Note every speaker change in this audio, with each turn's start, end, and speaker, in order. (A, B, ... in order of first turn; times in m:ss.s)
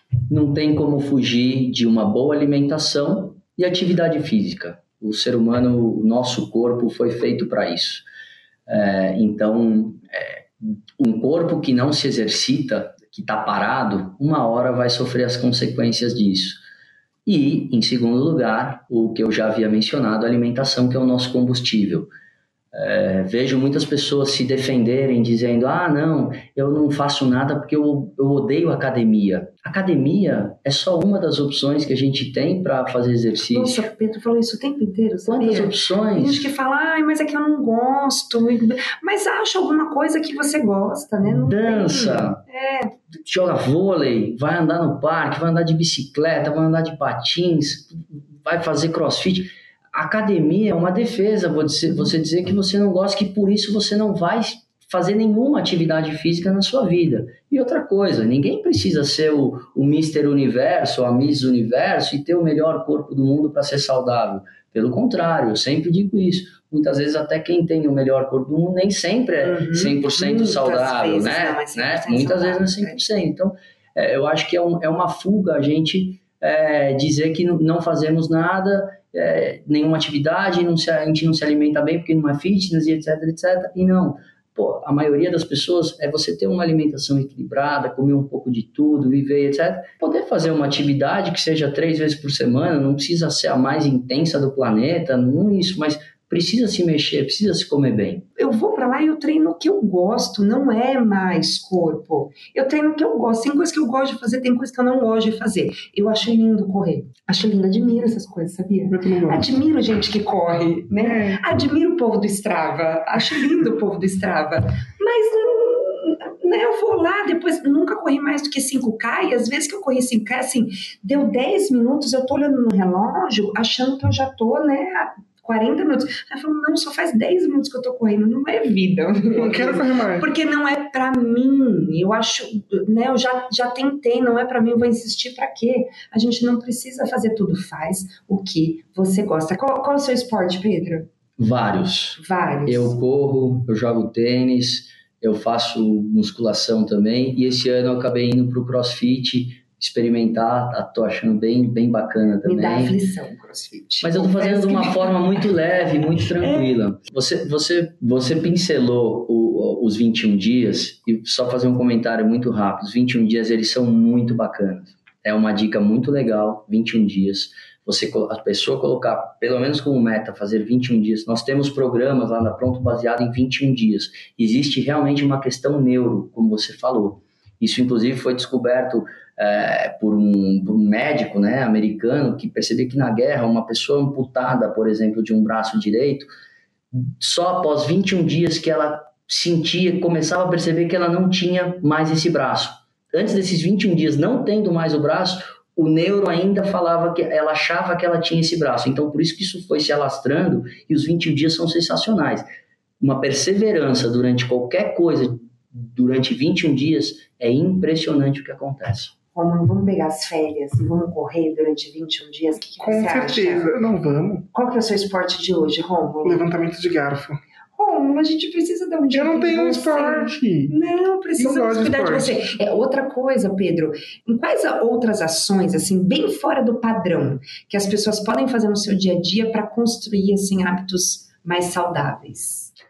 0:00.3-0:08.0 A
0:08.7-0:16.6 A
0:17.2-0:22.1 A
0:22.7-0:33.8 A
0:33.5-0:42.9 B
0:35.2-0:36.5 A
0:41.5-0:42.4 A
0:43.1-1:38.2 A
1:09.4-1:13.0 B
1:38.4-2:21.1 B
1:48.9-1:49.4 C
1:51.0-1:51.4 C
2:09.3-2:10.2 C
2:21.4-2:33.0 A
2:22.2-2:23.0 B
2:32.4-2:35.2 B
2:34.0-3:06.3 A
2:36.4-2:36.8 B
3:06.9-3:22.4 A
3:23.0-3:29.1 A
3:29.3-3:33.7 B
3:32.8-3:34.4 C
3:34.5-3:36.4 B
3:36.2-3:37.4 C
3:37.7-3:52.7 B
3:39.1-3:40.7 C
3:41.4-3:42.4 C